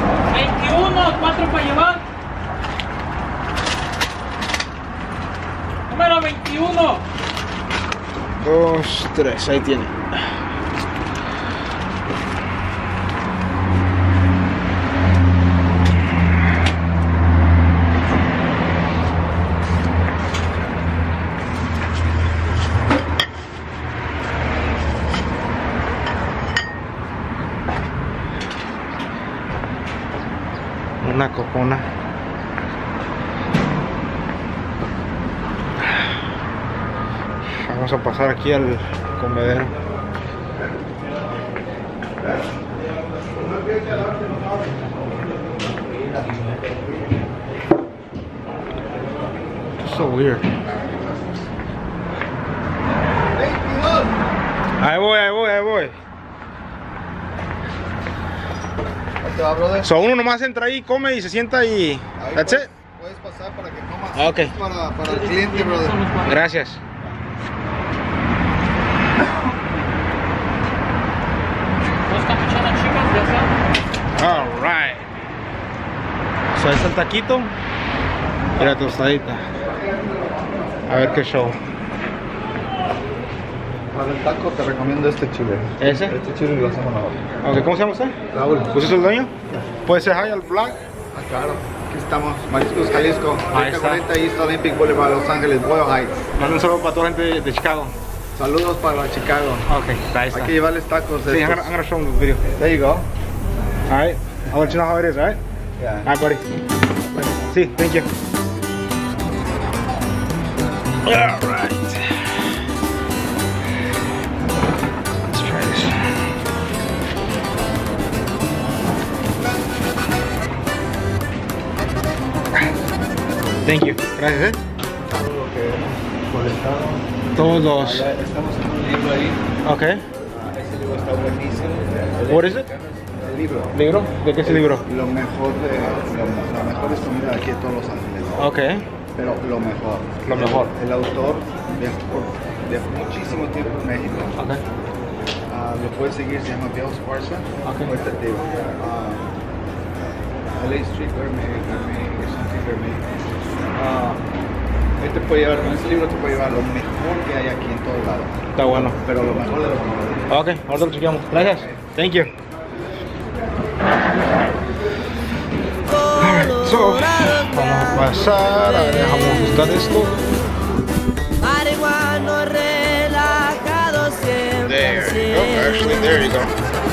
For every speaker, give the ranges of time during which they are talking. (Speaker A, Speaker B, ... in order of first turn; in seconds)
Speaker A: 0.3-2.0, 5.9-7.0, 65.0-66.4, 72.1-73.5
Speaker B: 8.4-10.3, 31.0-31.9, 37.6-39.8, 49.8-50.5, 54.8-56.0, 59.8-62.7, 64.2-64.5, 66.2-66.8, 74.2-75.1, 76.5-77.5, 78.6-79.4, 80.9-81.6, 85.8-86.2, 87.4-88.2, 88.7-89.3, 89.8-90.8, 93.5-94.0, 96.4-98.0, 99.7-100.6, 101.3-102.4, 103.9-105.4, 106.0-106.4, 107.4-108.1, 111.0-112.2, 115.3-116.0, 123.6-124.6, 127.3-128.1, 129.6-130.0, 132.3-132.7, 133.7-134.8, 138.4-138.9, 140.2-140.7, 144.4-144.6, 147.7-147.9, 158.6-159.0, 160.3-162.3, 166.2-170.2, 174.6-176.5
Speaker C: 53.3-54.2, 59.2-59.9, 62.2-66.1, 83.9-87.3, 88.3-88.8, 91.1-96.2, 98.4-99.7, 100.3-101.7, 102.5-103.1, 105.8-106.1, 125.0-127.0, 127.8-129.4, 130.3-133.7, 134.4-138.5, 139.1-144.3, 145.5-149.4, 150.5-153.0, 153.7-154.2, 155.0-160.4, 161.3-161.8
Speaker D: 165.9-170.2, 171.4-176.2